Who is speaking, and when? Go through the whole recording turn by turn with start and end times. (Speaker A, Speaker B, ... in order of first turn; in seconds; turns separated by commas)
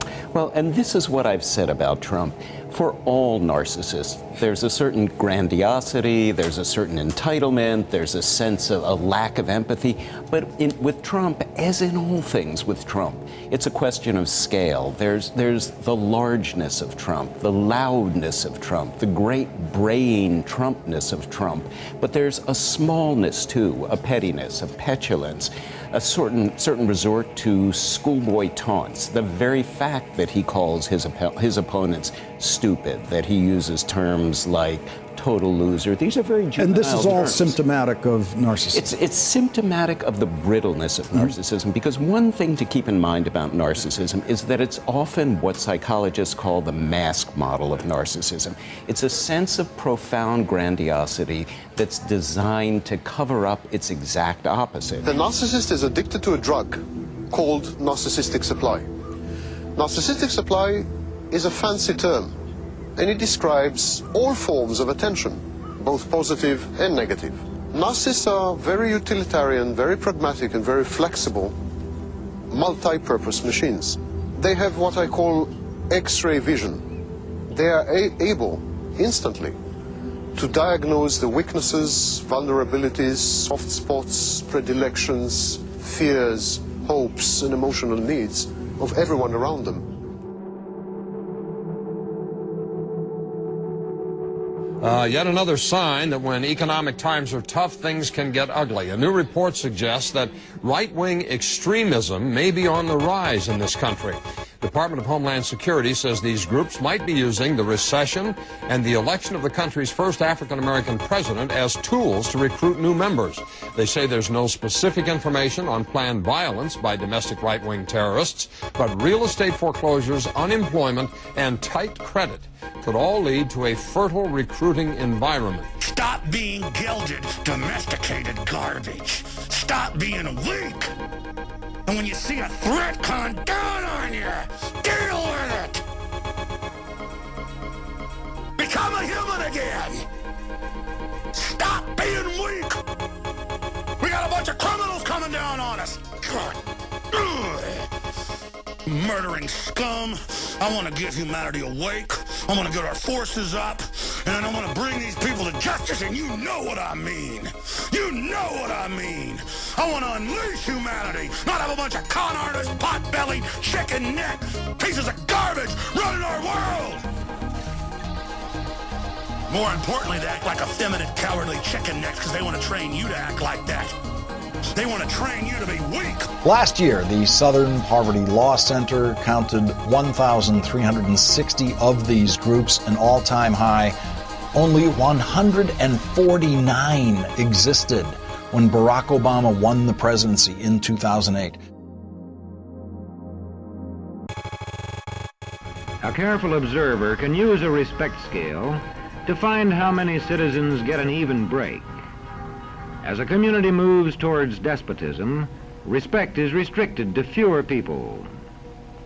Speaker A: 0.3-37.6, Speaker B: 36.6-38.9, Speaker A: 38.7-55.1, Speaker C: 55.0-58.9, Speaker C: 59.8-62.4, Speaker C: 63.0-71.6, Speaker C: 72.5-76.9, Speaker C: 77.5-79.6, Speaker C: 80.3-89.9, Speaker D: 94.8-125.7, Speaker E: 125.8-130.9, Speaker E: 131.9-135.8, Speaker E: 138.6-140.1, Speaker E: 141.3-142.8, Speaker E: 144.0-146.6, Speaker E: 147.1-147.9, Speaker E: 148.9-167.0, Speaker E: 169.5-174.0, Speaker E: 174.8-176.3, Speaker B: 176.4-184.0, Speaker B: 184.5-191.6, Speaker F: 196.0-202.0, Speaker F: 203.0-208.3